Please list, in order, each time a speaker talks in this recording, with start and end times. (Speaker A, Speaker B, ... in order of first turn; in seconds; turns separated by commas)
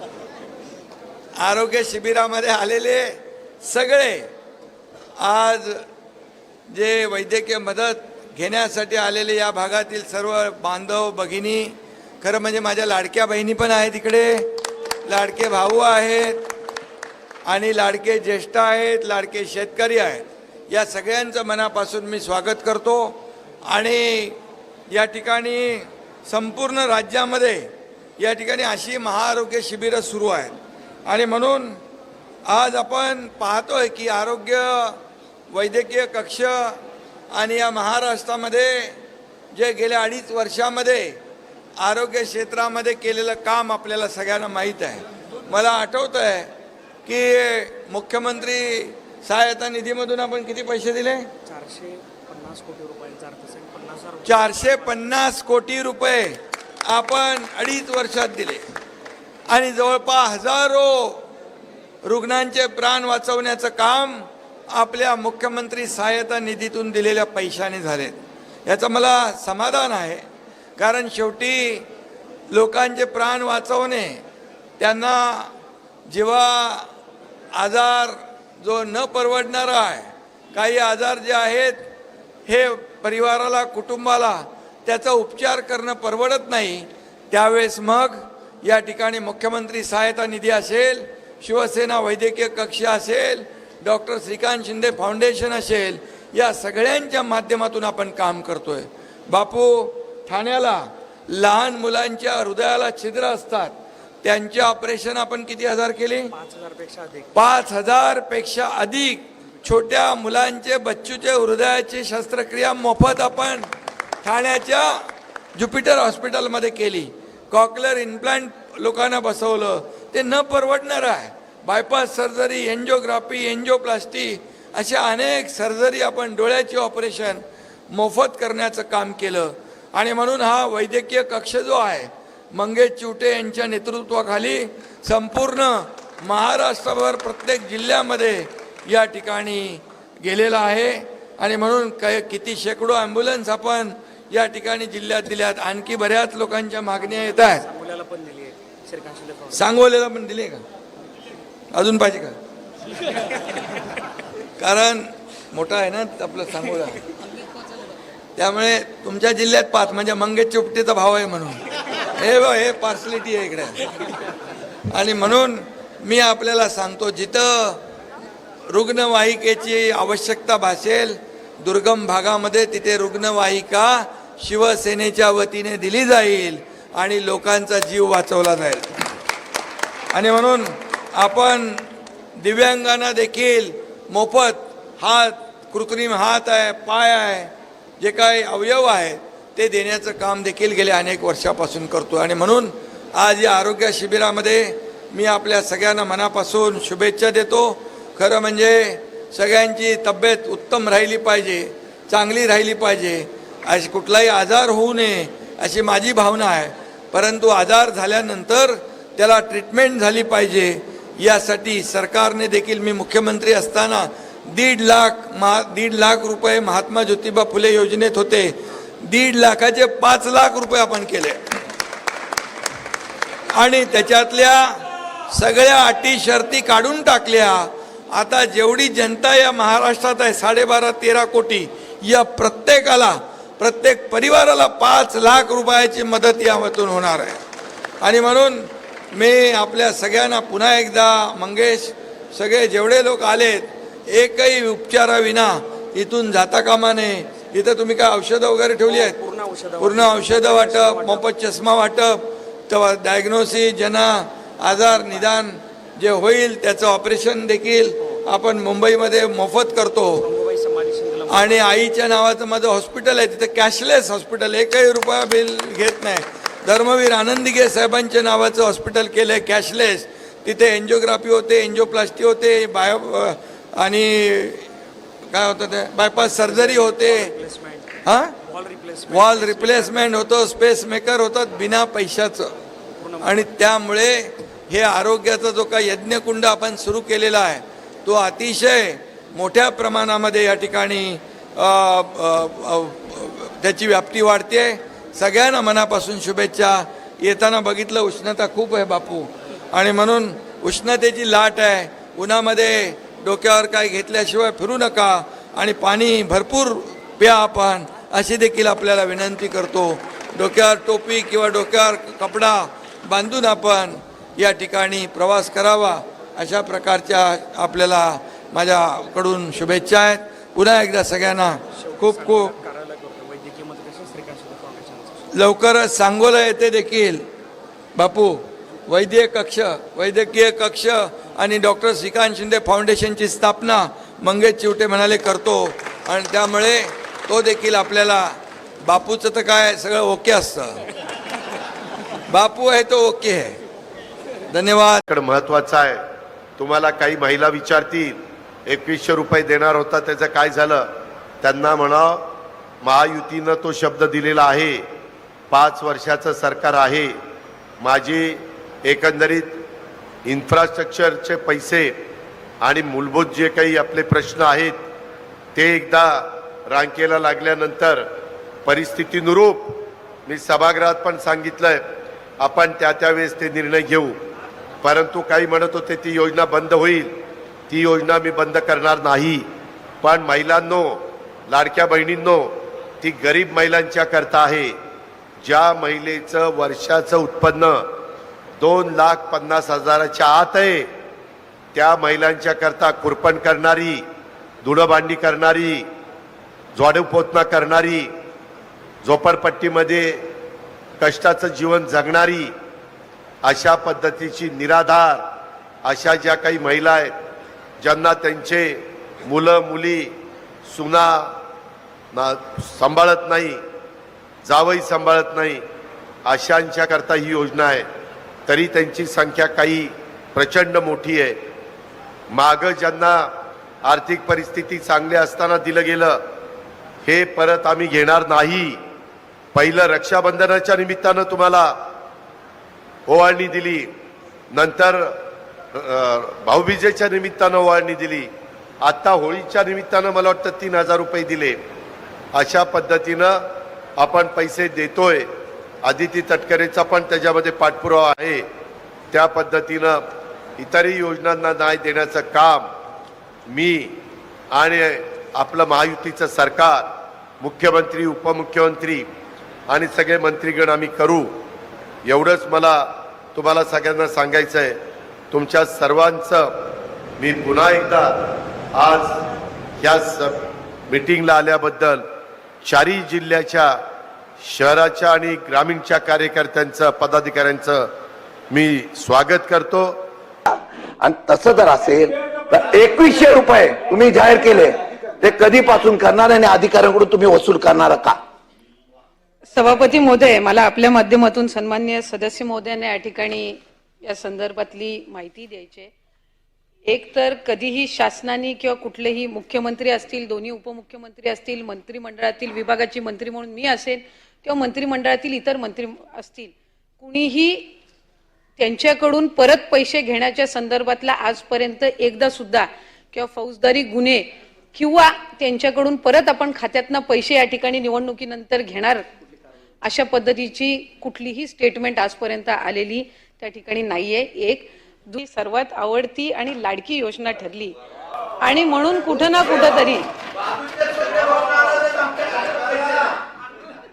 Speaker A: 1.4-4.3, Speaker A: 5.2-5.8, Speaker A: 6.7-14.5, Speaker A: 15.0-16.5, Speaker A: 17.4-24.4, Speaker A: 24.9-31.8, Speaker A: 32.5-35.0, Speaker A: 35.5-36.8, Speaker A: 37.3-39.0, Speaker A: 39.5-41.2, Speaker A: 41.8-46.5, Speaker A: 47.0-51.3, Speaker B: 51.4-55.0, Speaker A: 54.2-58.6, Speaker A: 59.5-61.3, Speaker A: 62.0-70.2, Speaker A: 70.8-71.8, Speaker A: 72.5-74.2, Speaker A: 74.8-75.5, Speaker A: 76.1-76.9, Speaker A: 77.5-81.9, Speaker A: 82.5-106.3, Speaker B: 106.3-107.3, Speaker A: 107.3-113.7, Speaker A: 114.2-147.6, Speaker B: 147.1-149.7, Speaker A: 149.5-150.6, Speaker A: 151.7-152.4, Speaker A: 154.6-157.0, Speaker A: 158.3-163.9, Speaker A: 164.9-167.8, Speaker A: 168.7-178.9, Speaker A: 180.1-181.8, Speaker A: 182.4-221.4, Speaker A: 223.5-237.4, Speaker A: 238.0-249.2, Speaker B: 248.9-251.2, Speaker A: 249.8-260.2, Speaker B: 260.2-261.6, Speaker A: 261.3-274.7, Speaker A: 275.3-277.3, Speaker B: 276.2-280.0, Speaker A: 278.0-278.4, Speaker A: 279.1-282.5, Speaker B: 283.0-283.4, Speaker A: 283.2-322.5, Speaker B: 321.7-325.3, Speaker A: 325.3-327.3, Speaker A: 327.9-340.8, Speaker A: 342.3-343.6, Speaker A: 344.5-345.0, Speaker C: 345.1-346.0, Speaker C: 346.6-350.9, Speaker C: 351.4-352.2, Speaker C: 352.8-354.8, Speaker C: 355.5-357.1, Speaker C: 357.8-359.6, Speaker C: 360.2-361.9, Speaker C: 362.6-364.8, Speaker C: 365.5-368.1, Speaker C: 368.6-371.8, Speaker C: 372.4-374.1, Speaker C: 374.8-377.1, Speaker C: 377.7-379.4, Speaker C: 380.0-384.7, Speaker C: 385.4-387.8, Speaker C: 388.6-390.9, Speaker C: 391.7-394.0, Speaker C: 394.6-395.8, Speaker C: 396.7-398.1, Speaker C: 399.0-400.2, Speaker C: 401.0-402.5, Speaker C: 403.4-405.2, Speaker C: 405.8-407.1, Speaker C: 407.8-410.1, Speaker C: 410.7-411.3, Speaker C: 412.1-413.6, Speaker C: 414.4-415.6, Speaker C: 416.2-417.9, Speaker C: 418.5-421.4, Speaker C: 422.3-423.3, Speaker C: 423.8-426.2, Speaker C: 427.0-428.8, Speaker C: 429.5-431.8, Speaker C: 433.1-433.9, Speaker C: 434.5-435.1, Speaker C: 435.7-438.3, Speaker C: 438.8-441.6, Speaker C: 442.3-443.4, Speaker C: 444.0-445.3, Speaker C: 445.8-448.4, Speaker C: 449.1-450.0, Speaker C: 450.6-452.7, Speaker C: 453.5-453.9, Speaker C: 454.5-459.1, Speaker C: 459.7-461.3, Speaker C: 462.0-464.8, Speaker C: 465.3-466.5, Speaker C: 467.2-468.1, Speaker C: 468.7-469.2, Speaker C: 469.8-472.0, Speaker C: 472.6-473.8, Speaker C: 474.4-477.9, Speaker C: 478.5-480.0, Speaker D: 480.5-488.2, Speaker E: 489.5-495.9, Speaker E: 496.9-507.7, Speaker E: 508.6-519.0, Speaker E: 519.8-527.7, Speaker E: 528.4-530.0